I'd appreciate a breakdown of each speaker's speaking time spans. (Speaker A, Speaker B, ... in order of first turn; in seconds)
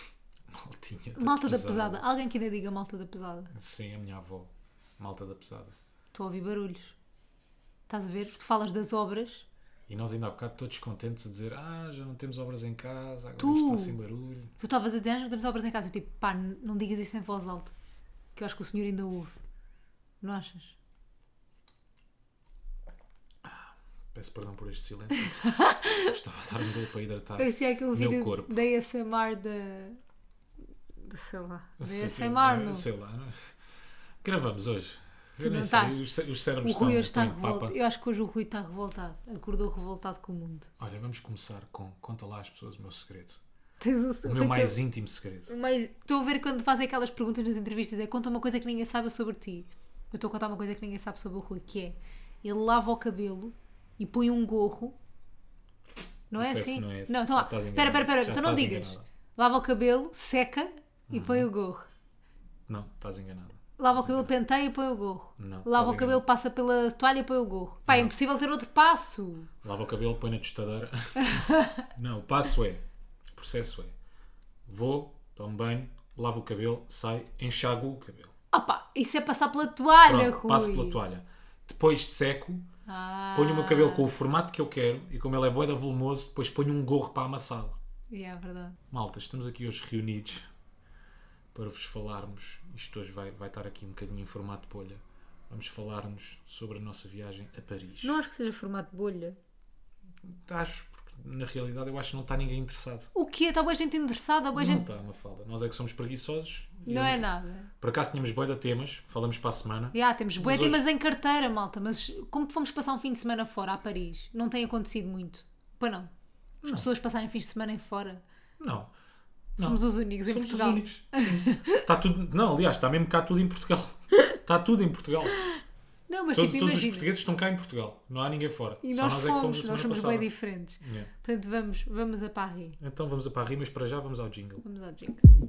Speaker A: 0.5-2.0, 3.5-5.7, 9.9-14.5, 23.4-25.3, 26.0-28.6, 31.8-33.5, 34.2-37.7, 40.8-43.4, 44.2-45.5, 56.4-59.0, 61.1-61.5, 62.7-64.3, 65.4-66.2, 67.9-68.1, 69.6-72.8, 73.3-73.9, 74.7-78.3, 80.0-82.7, 83.3-87.8, 88.9-90.5, 91.5-98.2, 100.2-103.1, 104.5-107.2, 107.8-110.8, 116.6-116.9, 118.6-118.9, 119.6-125.4, 126.3-130.3, 130.8-131.1, 132.8-134.6
Speaker B: 1.2-3.5, 6.1-7.0, 7.9-9.4, 13.4-14.0, 14.6-17.7, 18.3-19.4, 20.2-20.8, 25.2-26.1, 27.4-30.0, 31.0-32.9, 35.4-36.0, 36.6-40.7, 43.8-44.8, 45.5-55.0, 56.3-61.9, 63.8-69.5, 71.2-71.8, 78.5-81.0, 82.8-84.1, 88.1-88.8, 98.0-99.4, 103.1-104.8, 106.8-107.7, 109.9-116.1, 116.6-118.2, 119.6-121.8, 126.1-127.1, 128.8-132.8, 134.6-135.2